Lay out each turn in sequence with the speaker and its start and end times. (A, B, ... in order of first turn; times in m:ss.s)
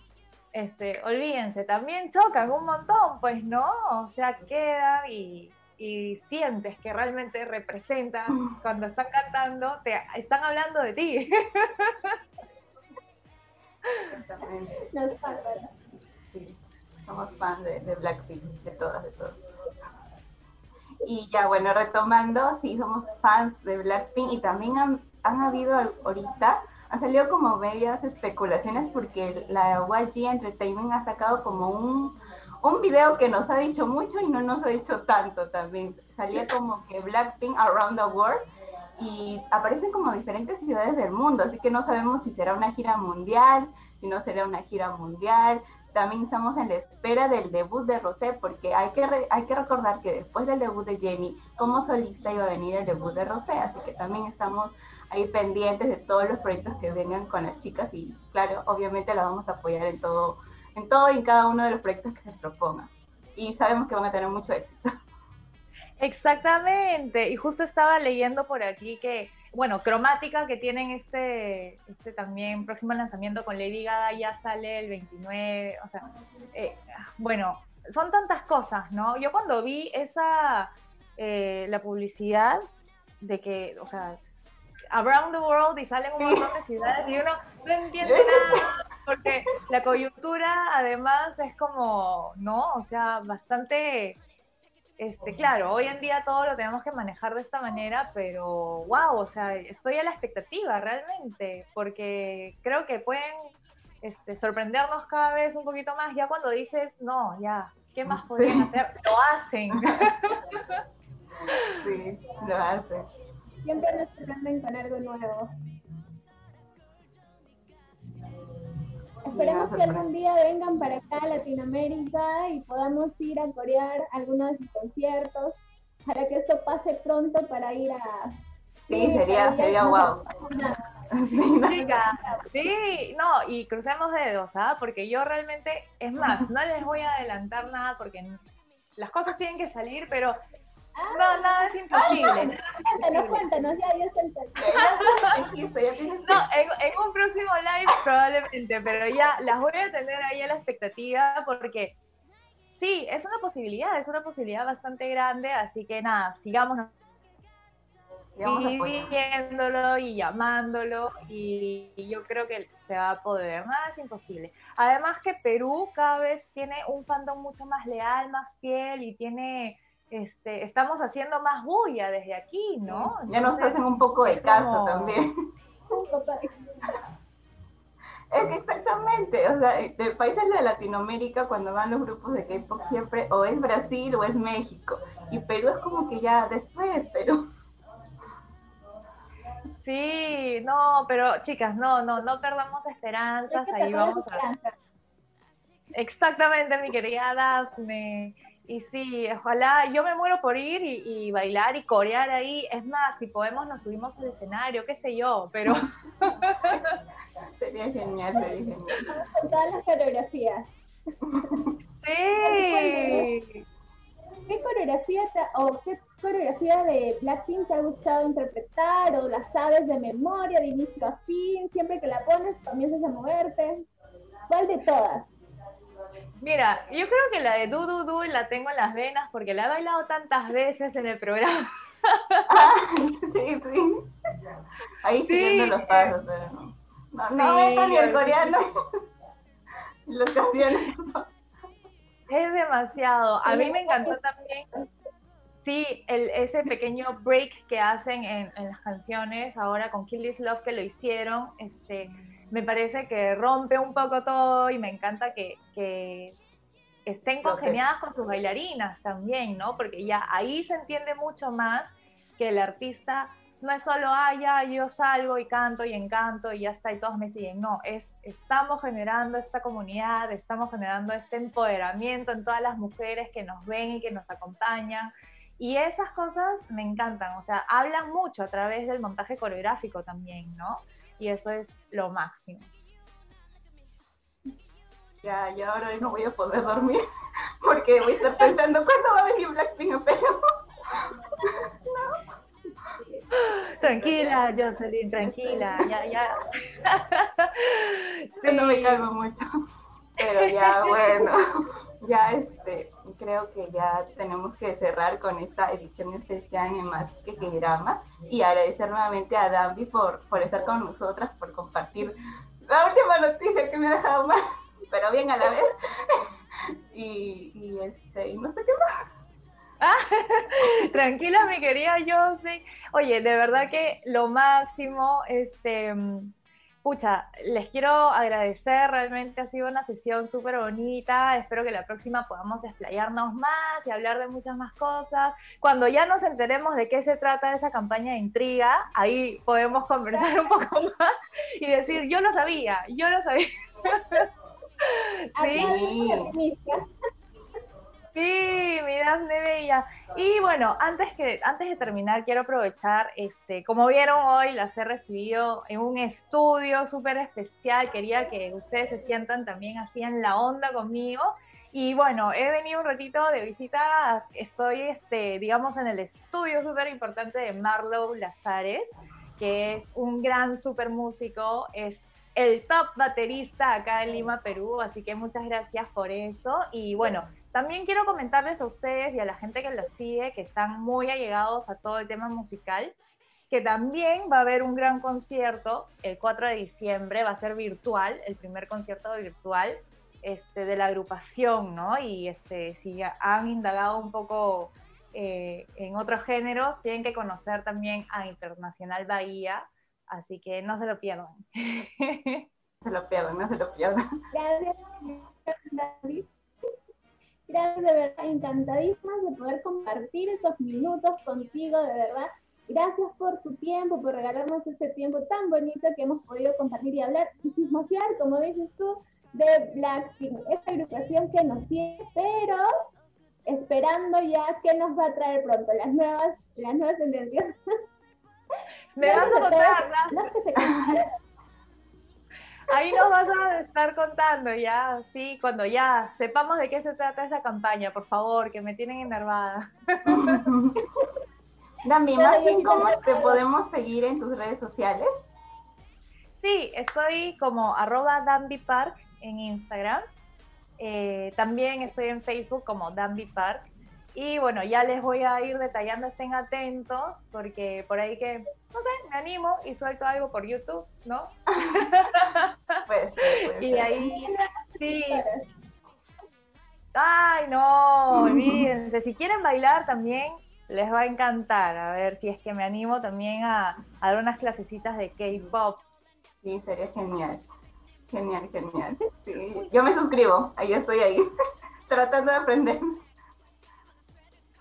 0:00.5-0:12.2 A
0:14.1-0:14.9 B
0:14.9-0:15.7 C
0:16.3-0:19.4 B
0:21.0-0:38.4 B
0:39.0-1:04.9 B
1:06.0-1:16.0 A
1:16.5-1:22.6 A
1:23.2-1:24.2 A
1:24.9-1:34.2 A
1:26.2-1:26.5 B
1:28.0-1:28.6 B
1:35.0-1:43.4 A
1:44.0-1:50.8 A
1:48.0-1:48.7 B
1:51.7-1:53.1 B
1:53.6-1:55.5 C
1:59.3-2:08.3 C
1:59.3-2:00.0 B
2:08.9-2:10.4 B
2:08.9-2:10.8 C
2:11.1-2:11.9 B
2:11.7-2:12.5 C
2:11.7-2:18.4 A
2:19.0-2:20.4 A
2:21.0-2:24.8 C
2:21.1-2:23.5 A
2:24.6-2:26.4 B
2:24.8-2:25.1 A
2:26.3-2:32.0 A
2:32.8-2:36.9 A
2:38.4-2:39.2 B
2:38.4-2:55.2 A
2:52.9-2:55.3 B
2:55.9-2:56.5 C
2:58.3-3:07.4 B
3:09.8-3:14.4 A
3:13.5-3:14.8 C
3:16.0-3:26.9 A
3:26.4-3:26.9 B
3:27.6-3:29.1 B
3:28.4-3:30.6 C
3:31.3-3:31.7 B
3:32.0-3:33.6 A
3:32.4-3:33.3 C
3:34.5-3:43.8 C
3:44.5-3:45.3 C
3:46.4-3:52.7 A
3:52.5-3:54.0 B
3:55.0-3:58.8 B
3:55.3-3:56.1 A
3:57.4-3:58.6 A
4:00.1-4:01.3 B
4:02.3-4:04.7 A
4:03.5-4:04.2 C
4:05.6-4:16.4 A
4:17.1-4:42.7 A
4:17.4-4:17.8 B
4:45.2-4:47.0 B
4:47.6-4:50.4 B
4:53.3-4:59.0 A
4:54.0-4:54.4 B
4:55.2-4:55.9 B
4:58.4-4:59.5 B
5:00.2-5:16.2 B
5:00.4-5:01.3 A
5:16.9-5:18.8 B
5:19.8-5:44.3 A
5:44.8-5:45.7 A
5:45.4-5:46.8 C
5:45.5-5:46.3 B
5:48.1-6:22.9 A
6:23.5-6:42.4 A
6:42.8-6:44.0 B
6:44.3-6:46.3 C
6:47.5-7:02.6 C
7:03.5-7:07.6 C
7:09.0-7:10.3 A
7:09.0-7:11.1 C
7:12.7-7:20.4 A
7:20.1-7:20.8 B
7:21.8-7:25.1 B
7:22.2-7:23.4 C
7:26.4-7:30.0 A
7:30.8-7:42.5 A
7:42.9-7:44.2 B
7:43.3-7:45.3 A
7:43.9-7:44.5 C
7:45.1-7:45.4 C
7:47.0-7:55.8 A
7:48.2-7:48.6 B
7:56.4-7:57.4 B
7:58.1-8:01.3 B
8:01.9-8:03.0 B